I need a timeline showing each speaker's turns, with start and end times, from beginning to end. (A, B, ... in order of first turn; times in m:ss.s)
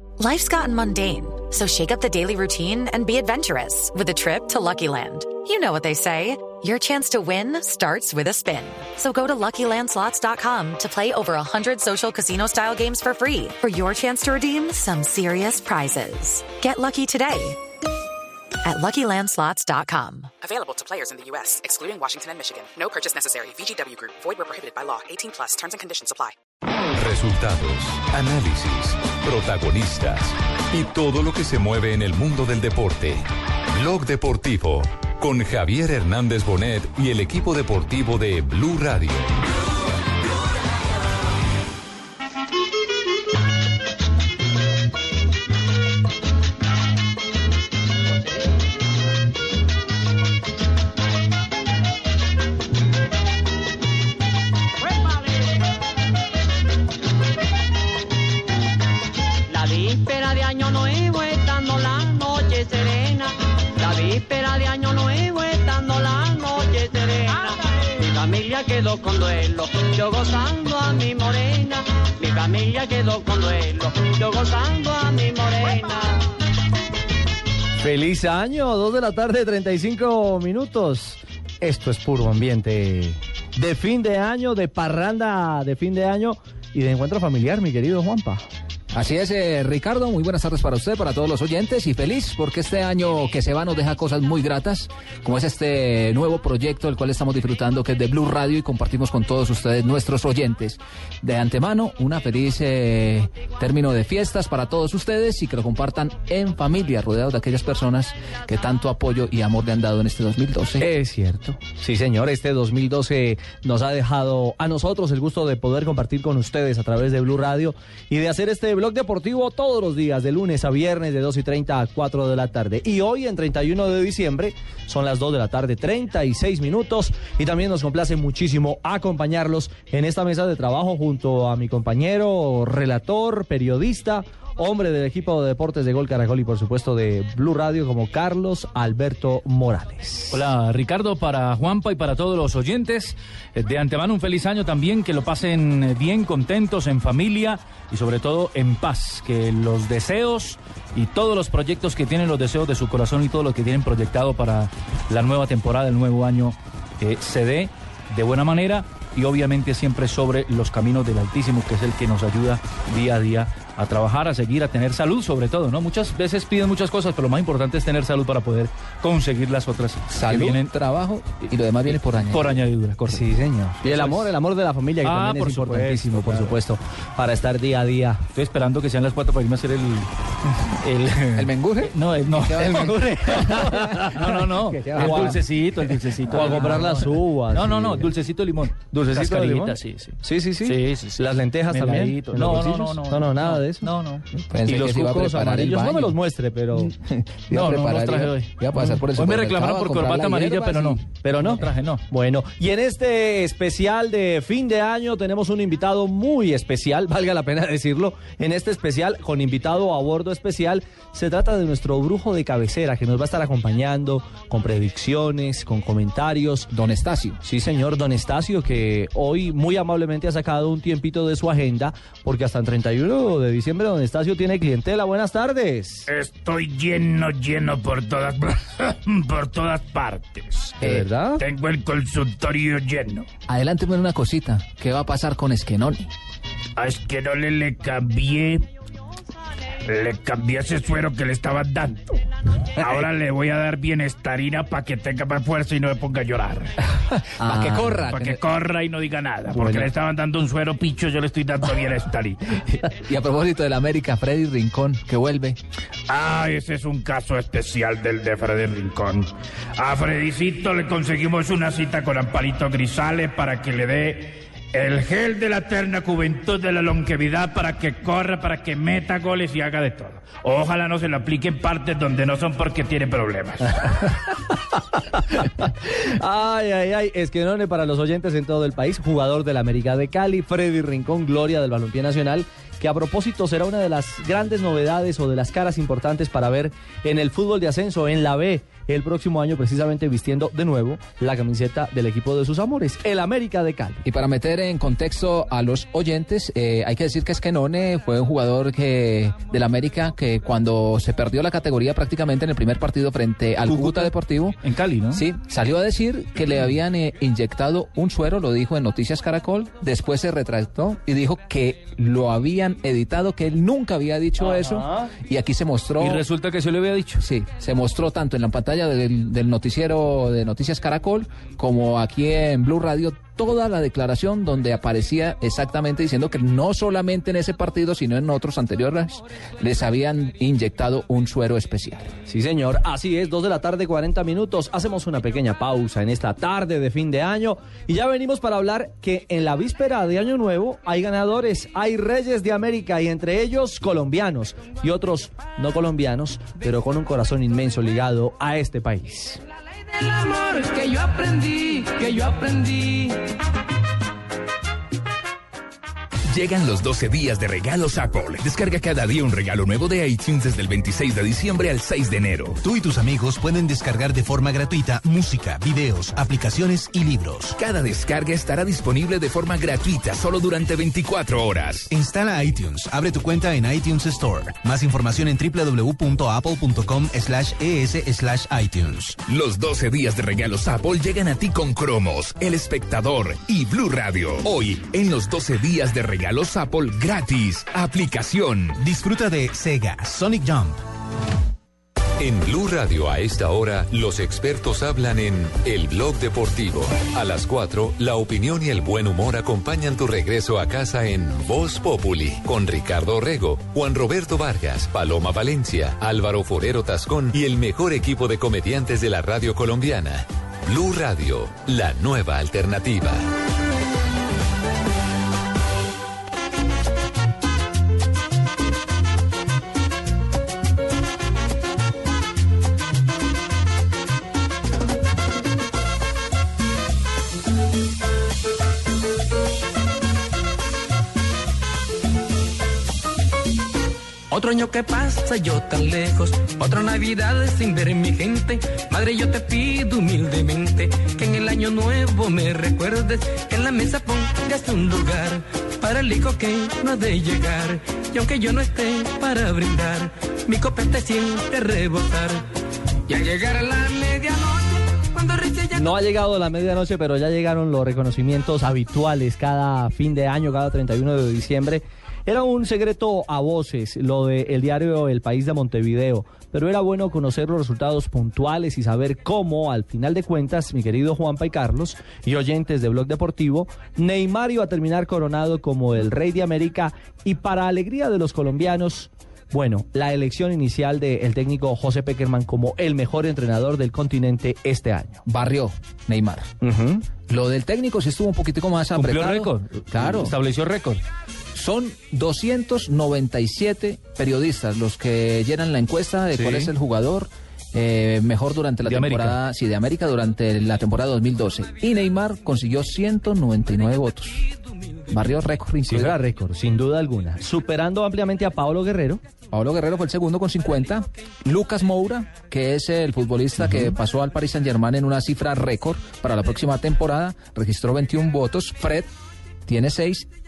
0:00.2-0:17.6 A
0:18.6-0:20.4 A
0:20.4-0:26.3 B
0:27.0-0:33.2 C
0:33.8-0:39.3 C
0:59.5-1:16.3 D
1:17.8-1:28.5 E
1:28.9-1:50.9 F
1:50.8-2:20.5 E
2:20.3-2:50.7 G
2:50.1-2:52.6 F
2:51.9-2:53.3 G
2:53.1-2:58.2 E
2:53.8-2:54.3 G
2:55.0-2:56.6 G
2:58.4-3:00.1 G
3:00.8-3:15.2 G
3:01.4-3:03.0 F
3:02.5-3:05.4 E
3:03.5-3:04.1 F
3:04.8-3:05.4 F
3:06.3-3:08.1 E
3:08.9-3:13.9 E
3:14.4-3:16.2 F
3:14.7-3:16.9 E
3:16.8-3:21.0 F
3:17.5-3:22.0 G
3:21.2-3:36.7 E
3:36.7-3:37.4 F
3:37.4-3:46.1 E
3:46.1-3:50.8 H
3:50.8-3:51.1 F
3:50.8-3:51.4 E
3:51.4-3:53.3 H
3:53.5-3:56.1 F
3:56.8-3:58.7 H
3:59.9-4:02.0 H
4:02.8-4:06.7 H
4:07.4-4:08.3 F
4:07.4-4:08.1 E
4:08.0-4:12.6 H
4:12.8-4:15.6 F
4:16.1-4:33.8 H
4:34.5-4:54.0 E
4:54.0-5:04.6 F
5:03.7-5:05.2 G
5:05.1-5:16.2 F
5:16.0-5:17.2 G
5:17.2-5:32.1 F
5:32.3-5:49.4 E
5:50.0-5:53.2 I
5:56.3-6:02.6 J
6:02.6-6:07.6 K
6:07.6-6:11.9 J
6:11.9-6:19.0 K
6:18.9-6:28.8 J
6:28.8-6:30.8 K
6:32.2-6:53.3 C
7:14.3-7:32.4 I
7:33.1-7:36.0 I
7:35.8-8:05.2 E
8:05.2-8:06.5 F
8:06.6-8:07.1 E
8:07.3-8:10.4 F
8:09.0-8:11.0 G
8:11.5-8:24.4 F
8:16.4-8:16.7 E
8:18.9-8:19.4 G
8:25.1-8:26.2 F
8:25.9-8:29.2 E
8:29.5-8:39.1 F
8:39.7-8:40.3 F